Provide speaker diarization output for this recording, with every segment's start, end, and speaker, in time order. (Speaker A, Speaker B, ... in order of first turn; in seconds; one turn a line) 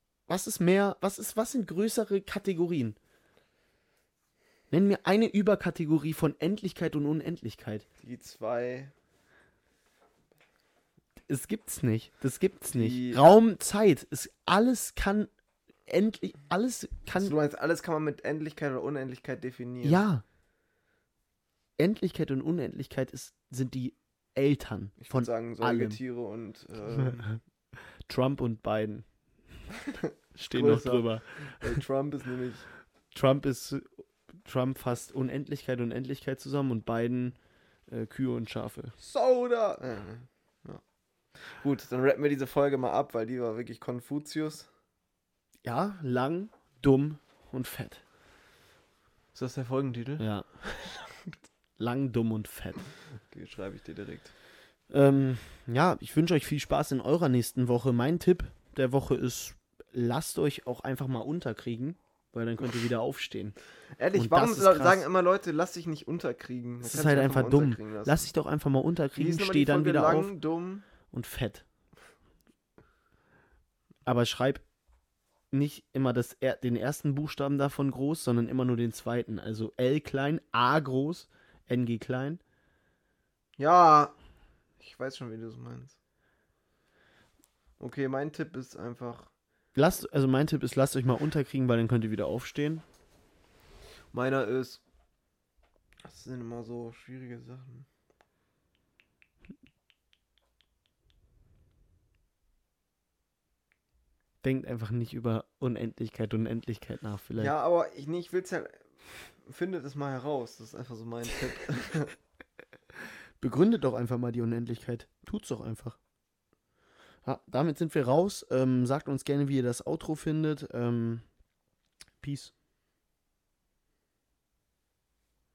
Speaker A: 0.3-3.0
Speaker A: 4.7-7.8
Speaker B: 8.0-8.9
Speaker A: 11.3-15.3
Speaker B: 12.7-13.2
Speaker A: 15.9-17.3
Speaker B: 17.1-20.0
Speaker A: 19.8-20.2
Speaker A: 21.8-26.0
Speaker B: 25.0-27.3
Speaker A: 26.9-27.4
Speaker A: 28.1-29.1
Speaker B: 29.9-32.7
Speaker A: 30.4-31.8
Speaker A: 33.1-37.4
Speaker A: 37.9-39.0
Speaker B: 39.0-40.8
Speaker B: 41.4-44.7
Speaker A: 45.6-48.0
Speaker B: 49.3-51.3
Speaker A: 50.2-50.5
Speaker A: 51.8-52.9
Speaker B: 53.1-54.3
Speaker A: 54.9-63.5
Speaker B: 64.0-68.3
Speaker A: 64.1-65.0
Speaker A: 66.8-70.3
Speaker B: 69.2-70.8
Speaker A: 71.1-71.7
Speaker A: 74.0-74.6
Speaker A: 75.5-82.4
Speaker B: 83.6-84.2
Speaker B: 84.8-86.0
Speaker B: 87.8-89.3
Speaker A: 89.7-92.8
Speaker B: 94.1-94.8
Speaker B: 96.0-97.9
Speaker A: 104.4-107.5
Speaker B: 107.4-112.2
Speaker A: 113.4-116.0
Speaker A: 117.2-121.2
Speaker A: 122.2-122.5